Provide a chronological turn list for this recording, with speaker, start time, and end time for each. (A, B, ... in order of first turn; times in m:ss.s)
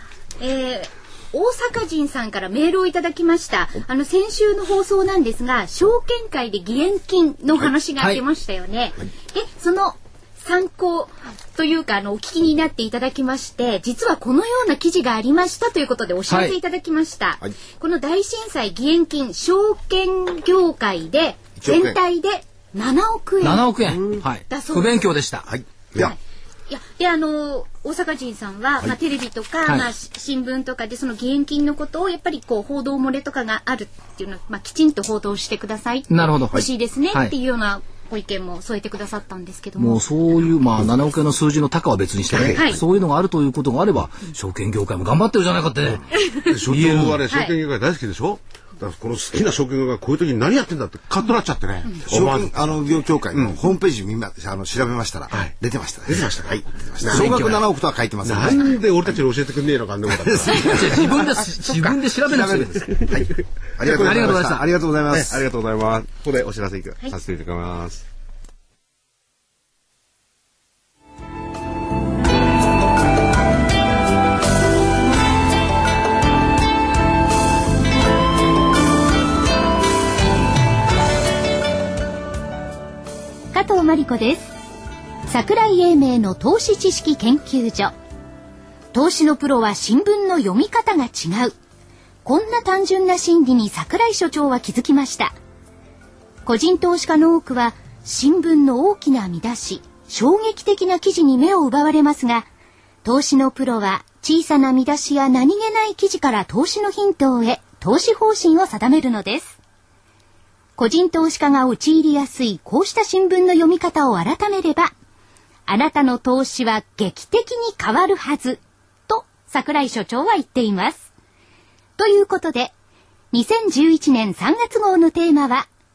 0:00.4-0:23.7 A
0:16.3-0:16.6 B
0:21.6-0:22.0 C
0:23.4-0:25.5 B
0:24.5-0:25.0 A
0:25.4-0:26.2 C
0:25.9-0:40.0 A
0:29.6-0:29.9 B
0:36.1-0:36.6 B
0:39.8-0:47.2 B
0:42.3-0:42.6 C
0:42.4-0:42.8 A
0:46.2-0:52.7 D
0:47.3-0:47.5 A
0:52.1-0:58.7 C
0:53.3-0:53.6 D
0:56.1-0:57.5 D
0:57.0-0:57.6 B
0:58.2-1:01.0 D
1:00.2-1:05.4 C
1:00.5-1:03.0 B
1:02.5-1:03.3 D
1:03.8-1:04.4 D
1:03.9-1:04.6 B
1:05.1-1:08.0 D
1:23.5-1:24.6 A
1:25.3-1:27.9 A
1:28.9-1:31.5 A
1:32.2-1:35.3 A
1:36.4-1:42.5 A
1:43.0-1:49.6 A
1:50.8-1:54.9 A
1:55.7-2:01.1 A
2:02.0-2:02.7 A
2:03.3-2:05.7 A